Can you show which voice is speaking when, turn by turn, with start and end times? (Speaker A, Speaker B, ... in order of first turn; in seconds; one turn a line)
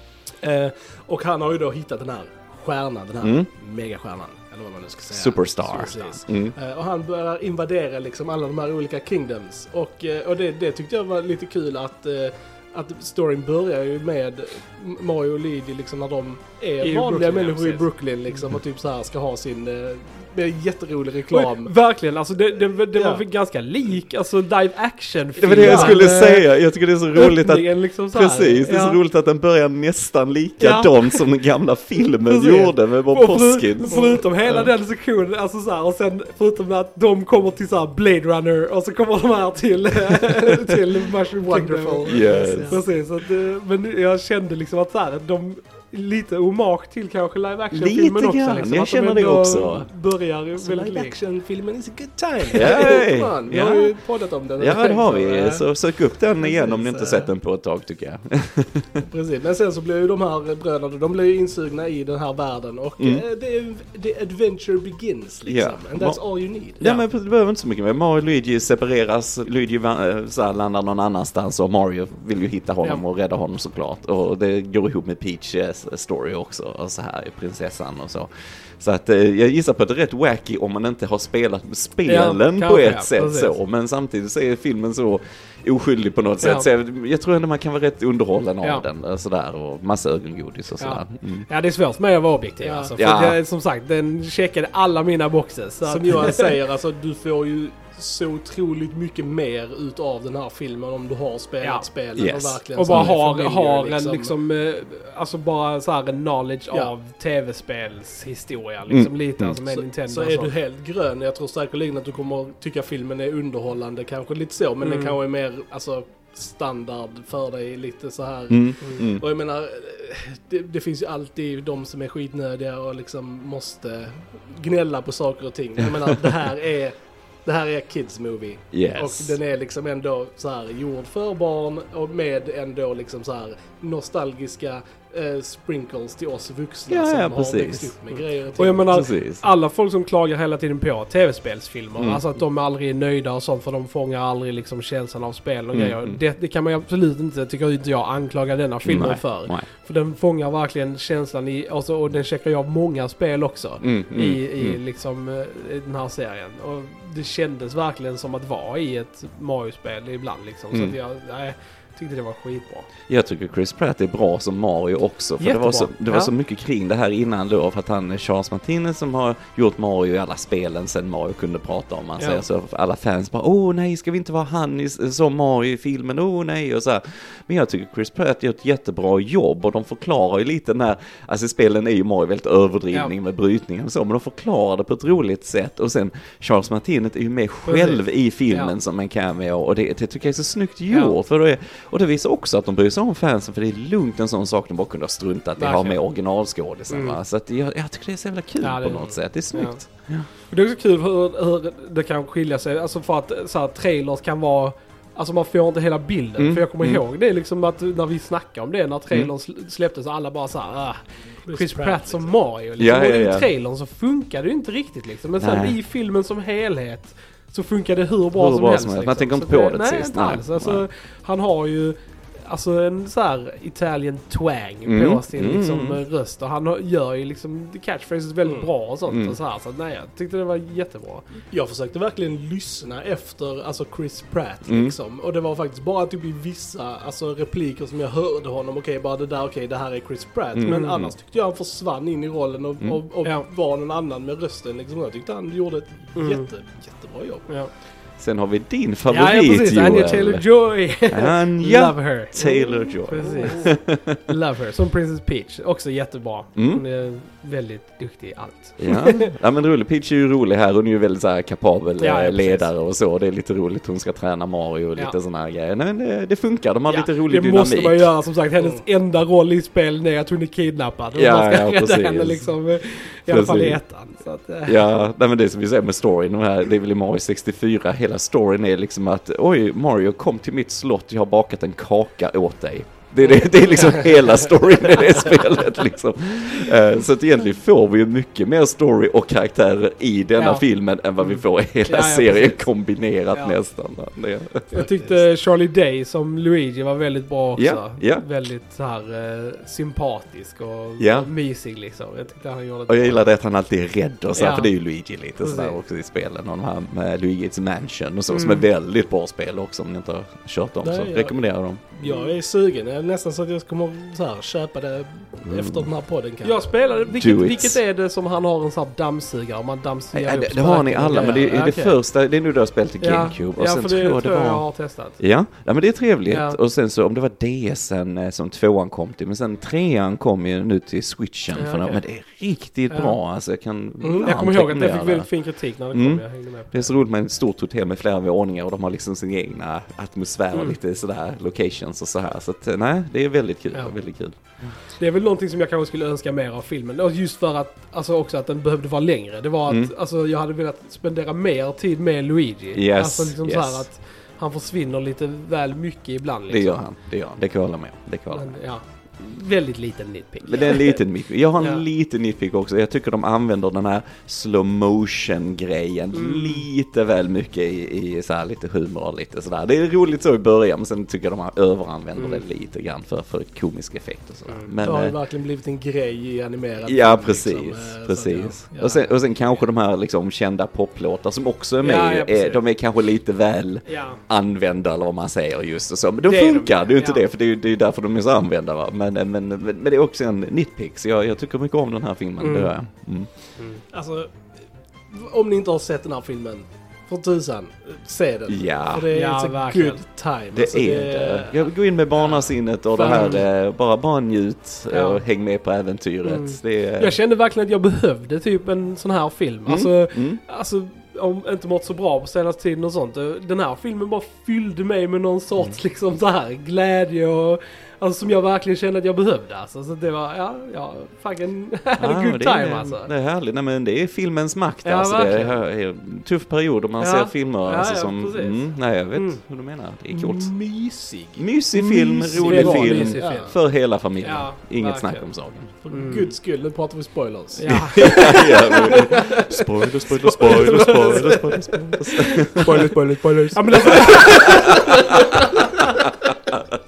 Speaker A: 0.4-21.7
Speaker B: 3.2-3.5
Speaker B: 5.1-6.5
Speaker C: 16.8-18.4
Speaker C: 21.3-26.5
Speaker A: 22.9-23.2
Speaker A: 25.4-26.0
Speaker B: 25.4-34.7
Speaker C: 27.1-29.0
Speaker C: 30.6-31.2
Speaker C: 32.2-51.1
Speaker A: 41.4-42.8
Speaker B: 42.0-42.8
Speaker B: 47.7-49.9
Speaker A: 50.5-55.7
Speaker C: 52.4-52.8
Speaker B: 52.5-54.0
Speaker B: 54.6-59.0
Speaker A: 56.4-57.3
Speaker A: 59.0-67.0
Speaker B: 65.5-66.2
Speaker B: 66.8-91.5
Speaker C: 82.0-83.5
Speaker C: 86.4-86.7
Speaker C: 90.8-96.5
Speaker A: 92.6-92.9
Speaker B: 92.9-93.4
Speaker A: 95.8-104.3
Speaker C: 101.6-101.8
Speaker B: 102.2-103.1
Speaker C: 102.7-110.5
Speaker B: 108.9-109.6
Speaker A: 109.7-126.9
Speaker C: 114.8-115.2
Speaker B: 118.5-119.2
Speaker A: 127.4-138.9
Speaker B: 128.7-129.4
Speaker B: 136.9-137.9
Speaker C: 138.6-162.9
Speaker B: 138.9-139.4
Speaker B: 142.0-142.2
Speaker B: 145.7-146.2
Speaker B: 148.8-149.7
Speaker B: 153.8-154.8
Speaker B: 163.1-200.3
Speaker C: 165.4-166.3
Speaker C: 172.2-172.4
Speaker C: 187.6-188.7
Speaker C: 195.6-196.0
Speaker C: 196.9-197.2
Speaker C: 198.6-199.8
Speaker C: 200.4-231.2
Speaker B: 206.4-207.0
Speaker A: 211.4-212.3
Speaker B: 212.8-213.5
Speaker B: 215.4-215.8
Speaker B: 218.3-220.8
Speaker B: 224.8-226.0
Speaker A: 228.4-228.7
Speaker B: 229.1-229.4
Speaker A: 231.5-247.6
Speaker B: 234.7-234.9
Speaker B: 240.5-241.1
Speaker C: 240.7-241.0
Speaker C: 246.2-246.5
Speaker B: 248.2-254.2
Speaker C: 249.1-259.3
Speaker B: 256.5-256.8
Speaker B: 258.8-268.1
Speaker C: 262.0-262.7
Speaker C: 266.9-274.8
Speaker A: 268.6-268.8
Speaker B: 271.1-272.6
Speaker B: 273.3-273.8
Speaker B: 274.6-294.9
Speaker C: 283.2-283.8
Speaker C: 290.4-290.6
Speaker C: 291.2-292.7
Speaker C: 293.3-293.6
Speaker C: 294.7-303.3
Speaker B: 297.6-298.2
Speaker B: 301.0-301.3
Speaker B: 302.9-312.0
Speaker C: 304.3-304.7
Speaker C: 305.4-305.8
Speaker C: 308.3-308.7
Speaker A: 310.8-317.1
Speaker B: 315.5-315.9
Speaker C: 316.4-322.0
Speaker B: 317.1-317.8
Speaker B: 320.1-344.8
Speaker C: 323.0-325.2
Speaker C: 326.3-326.6
Speaker C: 331.5-332.0
Speaker C: 332.9-333.1
Speaker A: 334.0-334.3
Speaker C: 334.2-336.9
Speaker C: 344.9-356.8
Speaker B: 352.7-353.9
Speaker B: 356.5-358.6
Speaker C: 358.3-361.0
Speaker B: 360.4-375.1
Speaker C: 361.6-361.8
Speaker C: 366.1-366.7
Speaker C: 372.1-372.4
Speaker C: 374.5-374.8
Speaker A: 374.8-379.2
Speaker B: 376.8-393.3
Speaker C: 381.8-382.6
Speaker C: 383.9-384.2
Speaker C: 386.3-387.2
Speaker C: 392.4-392.7
Speaker C: 393.6-393.8
Speaker A: 393.9-394.4
Speaker A: 395.1-401.7
Speaker B: 398.5-399.1
Speaker C: 399.1-400.0
Speaker B: 400.5-407.2
Speaker C: 402.2-403.4
Speaker C: 404.9-405.2
Speaker C: 406.2-423.1
Speaker B: 409.6-410.4
Speaker B: 422.0-430.5
Speaker C: 424.8-425.6
Speaker C: 427.0-429.4
Speaker A: 430.1-431.5
Speaker B: 431.4-435.7
Speaker C: 431.7-435.3
Speaker A: 432.0-433.5
Speaker A: 435.8-446.1
Speaker C: 435.9-436.3
Speaker C: 437.6-439.2
Speaker B: 437.7-442.9
Speaker C: 440.7-441.4
Speaker C: 442.1-442.8
Speaker C: 443.5-445.3
Speaker B: 443.9-444.9